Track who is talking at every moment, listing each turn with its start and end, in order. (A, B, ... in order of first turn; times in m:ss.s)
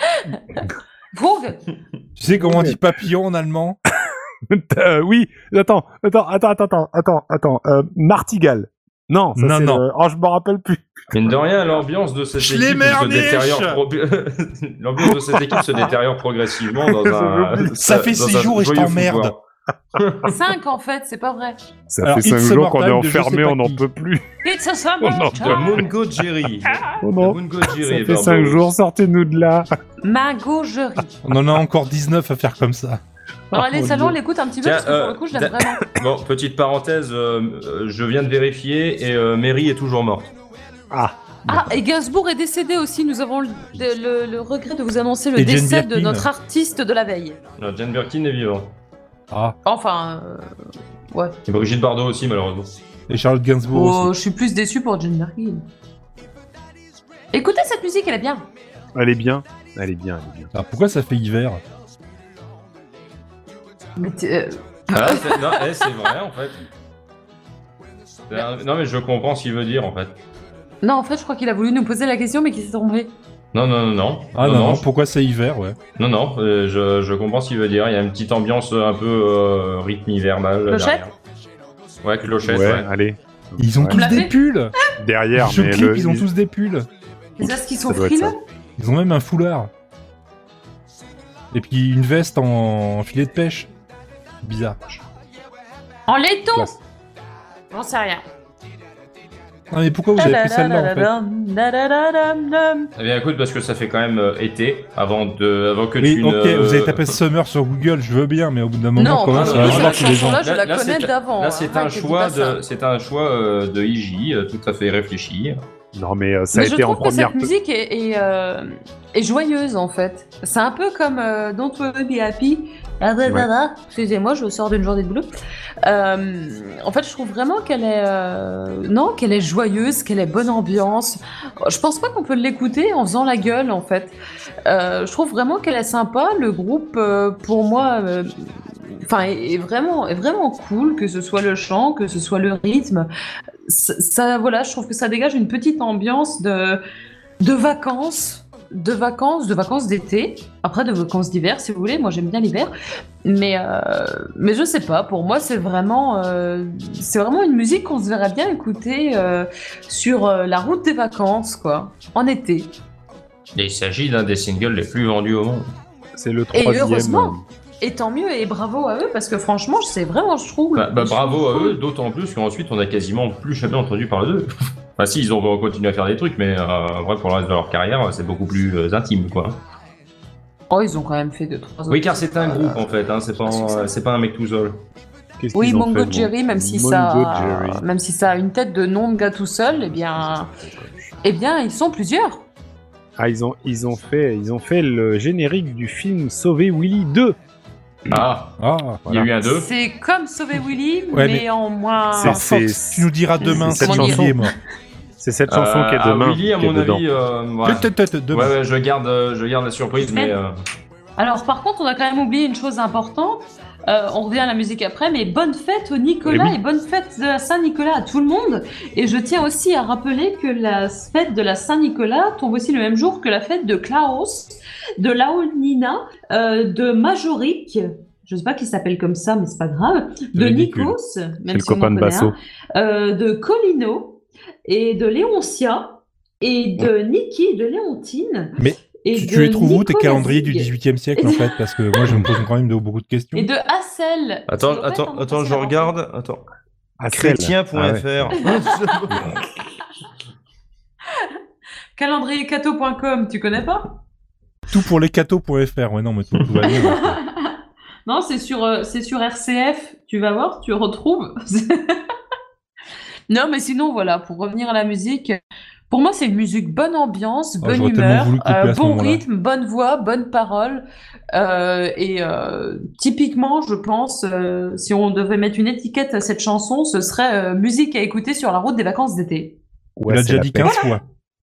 0:00.2-0:01.6 A
0:02.2-0:03.8 B
0:02.4-0:02.8 C
0:04.5-0:10.8 C
0:09.3-0:09.8 B
0:11.1-0:19.4 D
0:12.4-0:13.8 B
0:15.0-0:15.9 C
0:16.7-0:17.8 C
0:17.8-0:19.3 B
0:20.0-0:20.3 D
0:20.3-0:21.6 A
0:21.9-0:24.3 C
0:22.0-0:23.8 B
0:24.4-0:25.8 A
0:25.0-0:25.9 C
0:25.4-0:28.6 D
0:27.0-0:29.7 C
0:30.0-0:31.1 A
0:31.2-0:33.0 B
0:33.5-0:34.2 C
0:33.5-0:35.8 A
0:34.6-0:40.3 D
0:40.9-0:41.4 C
0:41.5-0:41.8 B
0:41.5-0:47.4 A
0:45.4-0:46.3 B
0:47.6-0:48.7 D
0:49.3-0:49.6 B
0:49.6-0:50.5 A
0:51.1-0:51.3 A
0:51.4-0:52.7 D
0:53.1-0:54.1 B
0:53.7-0:55.6 A
0:57.3-0:58.4 A
0:59.0-1:00.5 C
1:00.5-1:01.6 B
1:04.0-1:05.6 A
1:04.9-1:06.6 D
1:08.3-1:10.2 D
1:10.8-1:13.1 A
1:13.5-1:14.8 D
1:14.3-1:15.8 B
1:16.0-1:21.1 D
1:20.7-1:21.1 A
1:22.0-1:22.9 D
1:22.3-1:24.0 C
1:23.6-1:24.7 B
1:23.9-1:24.3 A
1:25.0-1:26.3 C
1:25.3-1:26.9 B
1:27.4-1:28.4 A
1:27.4-1:28.3 C
1:28.8-1:29.7 B
1:31.5-1:33.7 B
1:34.4-1:35.0 B
1:36.1-1:36.8 A
1:37.7-1:38.2 A
1:39.7-1:41.1 B
1:40.1-1:42.9 A
1:43.0-1:47.0 D
1:46.0-1:50.4 B
1:49.0-1:52.6 A
1:49.3-1:55.6 D
1:55.9-1:57.5 C
1:56.5-2:18.3 A
2:18.9-2:23.1 A
2:23.6-2:26.8 A
2:27.4-2:32.7 A
2:33.2-2:42.7 A
2:43.6-2:45.7 D
2:46.2-2:47.4 C
2:46.5-2:51.8 A
2:50.8-2:59.6 D
3:00.7-3:03.9 A
3:01.9-3:04.8 D
3:05.4-3:07.8 C
3:05.5-3:10.5 A
3:09.7-3:11.2 C
3:11.2-3:12.4 A
3:13.2-3:17.4 C
3:18.1-3:18.6 D
3:18.6-3:19.0 B
3:19.1-3:19.7 D
3:19.4-3:22.4 A
3:21.1-3:21.4 B
3:22.1-3:24.4 C
3:22.2-3:24.5 B
3:23.4-3:24.5 A
3:25.2-3:27.1 C
3:25.5-3:30.5 D
3:27.6-3:28.5 B
3:30.0-3:30.4 A
3:31.2-4:01.4 A
3:36.2-3:36.6 C
3:50.3-3:50.9 B
3:51.5-3:52.4 C
3:58.6-4:03.5 B
4:03.3-4:05.9 A
4:04.5-4:06.4 D
4:07.0-4:08.1 C
4:07.1-4:09.2 D
4:12.0-4:13.9 A
4:14.7-4:17.2 B
4:16.6-4:17.5 A
4:18.1-4:22.0 A
4:23.3-4:25.4 A
4:25.9-4:39.6 A
4:27.6-4:29.2 B
4:40.0-4:40.8 C
4:40.1-4:41.0 B